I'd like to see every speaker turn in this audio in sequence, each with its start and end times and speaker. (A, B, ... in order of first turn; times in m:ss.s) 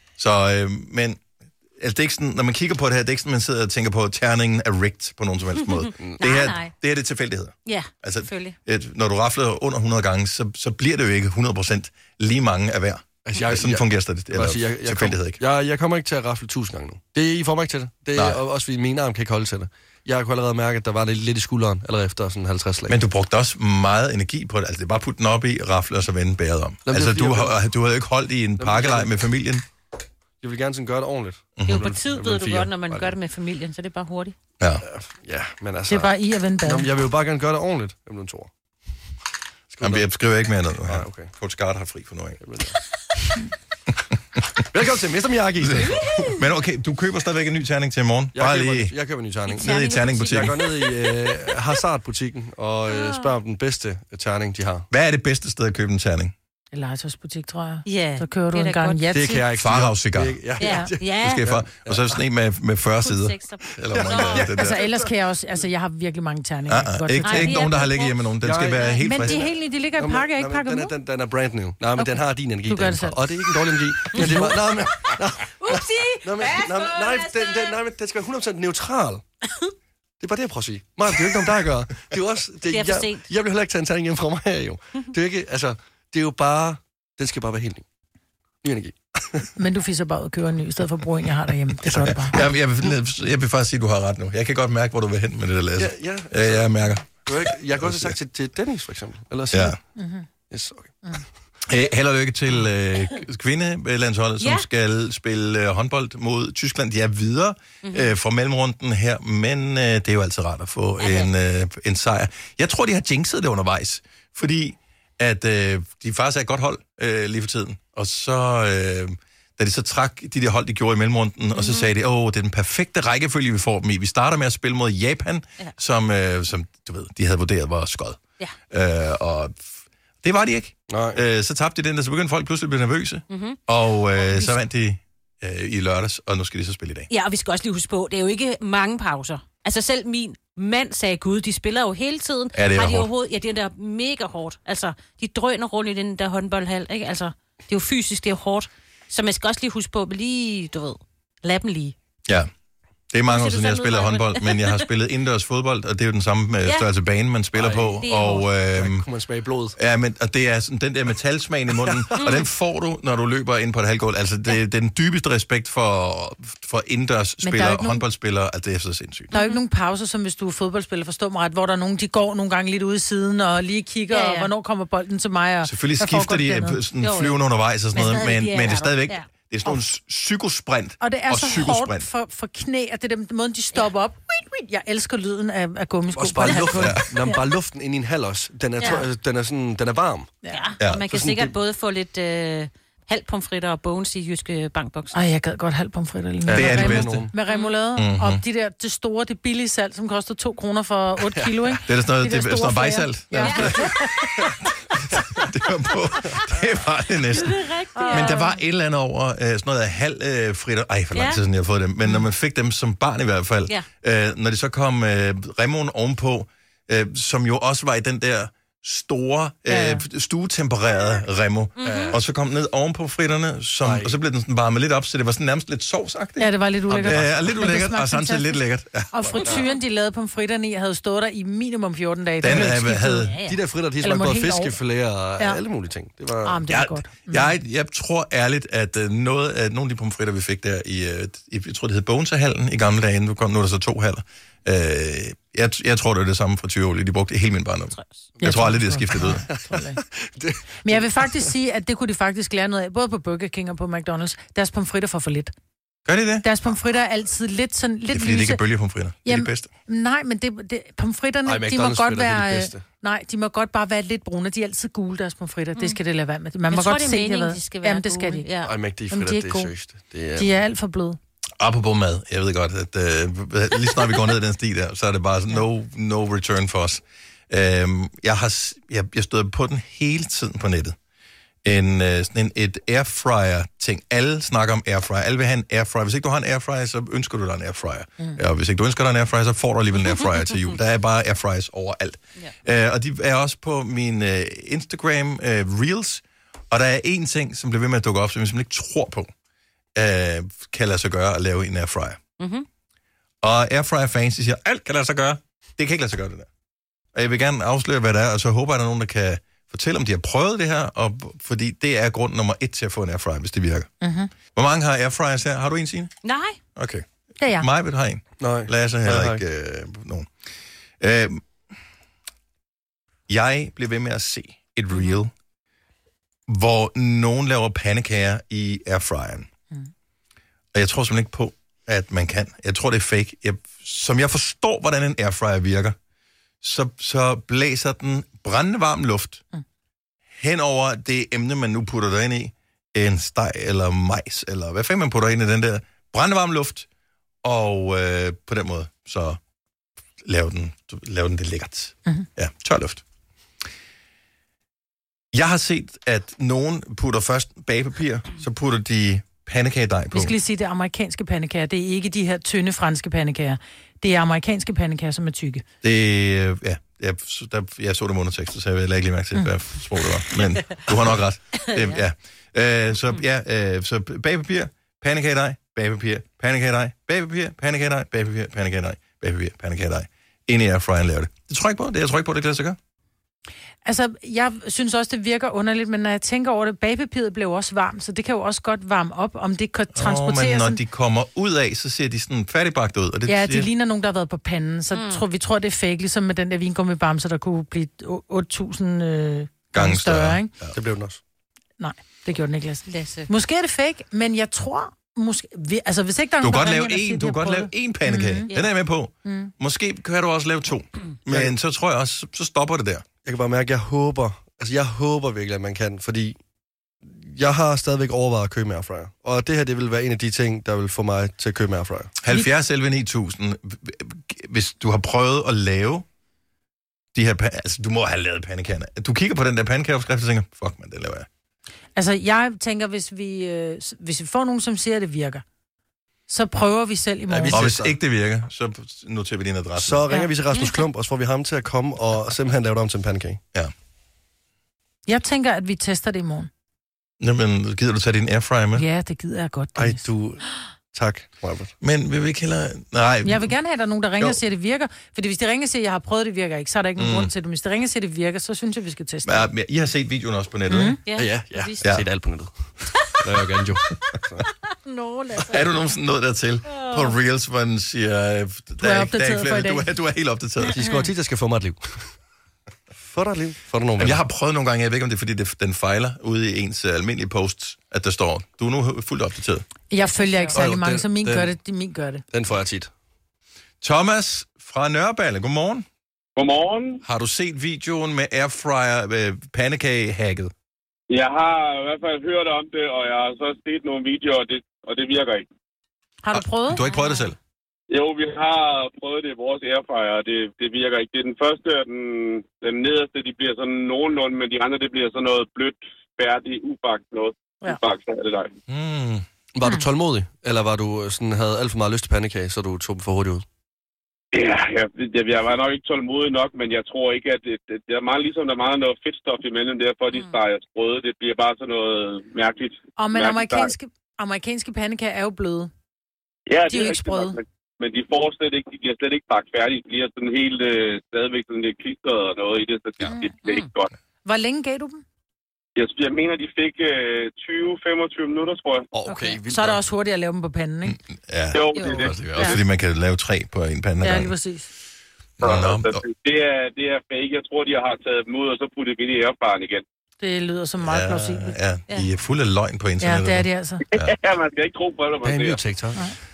0:00.2-0:01.2 A
0:01.8-0:15.4 A
0:05.7-0:06.7 B
0:07.6-0:08.6 B
0:13.2-0:23.0 C
0:18.1-0:18.4 A
0:22.9-0:29.6 A
0:26.8-0:27.6 C
0:28.6-0:29.1 C
0:30.4-0:33.1 C
0:31.6-0:31.9 A
0:31.7-0:34.3 B
0:34.8-0:38.5 C
0:35.9-0:36.9 D
0:39.7-0:40.1 C
0:39.8-0:42.4 A
0:40.8-0:41.3 C
0:42.4-0:42.8 C
0:44.7-0:46.3 C
0:45.6-0:48.9 A
0:48.3-0:54.9 C
0:49.5-0:51.1 B
0:49.6-0:50.6 A
0:52.9-0:53.3 B
0:54.9-0:56.3 A
0:56.7-0:59.4 D
0:57.8-0:59.2 B
0:59.1-1:02.2 C
0:59.5-1:00.4 A
1:00.6-1:01.5 B
1:01.2-1:04.8 A
1:03.0-1:04.5 B
1:03.9-1:05.1 C
1:04.6-1:07.6 D
1:06.7-1:09.5 A
1:07.2-1:08.2 B
1:08.4-1:19.2 C
1:09.0-1:10.9 D
1:12.0-1:13.5 D
1:14.1-1:14.4 D
1:14.2-1:14.5 B
1:15.6-1:17.8 B
1:20.2-1:27.8 C
1:22.7-1:23.2 B
1:28.6-1:29.5 C
1:29.6-1:32.4 D
1:31.9-1:32.1 C
1:32.0-1:38.2 A
1:35.8-1:39.8 C
1:39.5-1:39.8 A
1:40.0-1:40.3 D
1:40.5-1:41.0 C
1:41.6-2:08.2 A
1:44.4-1:44.6 B
1:47.8-1:48.1 B
1:51.0-1:51.3 B
2:01.5-2:01.9 B
2:08.7-2:17.1 A
2:10.9-2:11.2 C
2:13.3-2:13.6 B
2:14.1-2:14.6 B
2:17.1-2:31.9 B
2:22.5-2:23.1 A
2:33.1-2:39.0 A
2:33.3-2:34.8 B
2:37.6-2:38.0 C
2:38.0-2:38.5 B
2:38.7-2:39.8 C
2:39.8-2:49.3 A
2:41.8-2:42.2 C
2:42.2-2:42.4 B
2:47.4-2:48.0 D
2:49.3-2:49.6 B
2:49.3-2:56.8 D
2:54.1-2:54.5 B
2:55.6-3:02.1 A
2:57.0-2:57.4 B
2:57.9-2:59.3 B
3:01.0-3:07.4 D
3:06.1-3:10.3 C
3:06.8-3:07.0 A
3:08.8-3:09.0 B
3:10.5-3:15.2 B
3:10.8-3:11.0 A
3:11.1-3:11.5 C
3:15.1-3:24.1 D
3:16.5-3:17.3 C
3:16.5-3:17.3 A
3:17.5-3:17.7 B
3:18.0-3:18.4 A
3:21.2-3:21.8 C
3:21.8-3:24.5 A
3:23.4-3:23.8 B
3:25.1-3:49.5 A
3:27.3-3:28.5 B
3:27.9-3:28.5 D
3:31.1-3:31.4 B
3:39.7-3:40.0 D
3:41.8-3:42.2 B
3:41.8-3:42.2 C
3:43.8-3:44.2 C
3:46.4-3:48.6 D
3:46.9-3:47.4 C
3:49.1-3:53.3 D
3:52.4-3:53.4 A
3:53.0-3:53.6 B
3:53.4-3:56.8 C
3:54.0-3:54.8 D
3:56.4-3:57.5 D
3:56.7-4:09.4 A
4:08.4-4:10.0 D
4:09.1-4:11.5 C
4:10.8-4:15.5 D
4:16.0-4:16.5 A
4:16.4-4:18.6 D
4:18.1-4:19.7 A
4:19.2-4:28.5 D
4:21.4-4:22.8 C
4:26.7-4:28.7 B
4:28.6-4:30.5 C
4:29.1-4:29.7 D
4:30.4-4:31.2 D
4:31.6-4:41.0 A
4:41.6-4:59.3 A
5:00.0-5:02.2 A
5:02.4-5:02.6 B
5:03.4-5:06.5 A
5:07.1-5:13.9 A
5:14.0-5:14.3 D
5:14.5-5:16.1 A
5:16.2-5:16.6 B
5:16.8-5:17.0 A
5:17.4-5:17.7 D
5:17.6-5:20.3 A
5:18.4-5:19.4 C
5:21.0-5:21.4 A
5:23.3-5:25.3 A
5:26.5-5:29.5 A
5:30.7-5:36.0 A
5:36.6-5:39.4 A
5:40.4-5:46.9 A
5:47.4-5:49.4 A
5:50.2-5:53.0 A
5:55.3-6:00.3 A
6:00.1-6:05.6 D
6:05.8-6:22.8 A
6:11.7-6:12.0 B
6:23.8-6:30.8 D
6:29.9-6:33.7 A
6:33.3-6:40.5 D
6:34.9-6:35.2 B
6:39.7-6:40.8 A
6:40.7-6:41.2 C
6:41.8-6:48.5 D
6:42.9-6:43.3 B
6:46.4-6:53.0 A
6:49.2-6:49.5 D
6:51.3-6:51.5 C
6:53.2-6:56.4 C
6:57.0-7:02.1 C
7:02.2-7:06.0 A
7:07.1-7:11.3 A
7:12.0-7:15.4 D
7:16.3-7:17.6 D
7:17.3-7:20.0 A
7:17.5-7:17.9 C
7:19.8-7:23.4 C
7:20.1-7:20.8 D
7:25.1-7:26.5 D
7:27.2-7:28.8 A
7:28.7-7:30.0 D
7:29.8-7:31.7 C
7:31.8-7:33.5 A
7:33.2-7:39.5 D
7:37.0-7:37.3 A
7:39.2-7:41.0 A
7:40.7-7:41.0 D
7:41.0-7:41.8 B
7:41.2-7:44.4 C
7:44.8-7:45.6 D
7:45.5-7:50.8 A
7:46.7-7:47.0 B
7:48.8-7:49.9 D
7:50.7-7:52.1 C
7:50.8-7:51.1 B
7:53.0-7:54.2 C
7:54.0-7:59.6 A
7:59.9-8:02.2 D
8:00.2-8:00.5 B
8:00.5-8:01.5 C
8:02.3-8:02.9 C
8:03.8-8:05.8 A
8:06.4-8:07.0 E
8:07.0-8:10.5 A
8:11.1-8:15.4 E
8:16.2-8:16.8 D
8:16.3-8:17.4 A
8:16.8-8:17.3 B
8:17.9-8:28.5 E
8:28.7-8:29.2 A
8:29.5-8:33.4 C
8:34.3-8:43.7 E
8:40.1-8:40.4 B
8:43.0-8:45.7 D
8:46.5-8:53.9 E
8:46.7-8:47.4 D
8:53.4-8:53.7 B
8:54.2-8:55.0 D
8:55.8-8:58.9 E
8:58.9-8:59.8 C
8:59.1-9:01.0 D
9:00.8-9:04.3 A
9:01.5-9:02.2 E
9:01.8-9:02.6 B
9:01.8-9:02.5 D
9:04.0-9:04.7 D
9:05.4-9:06.0 A
9:05.4-9:09.8 E
9:10.2-9:11.6 D
9:10.8-9:14.2 A
9:13.0-9:13.8 D
9:13.9-9:15.6 E
9:15.2-9:16.1 C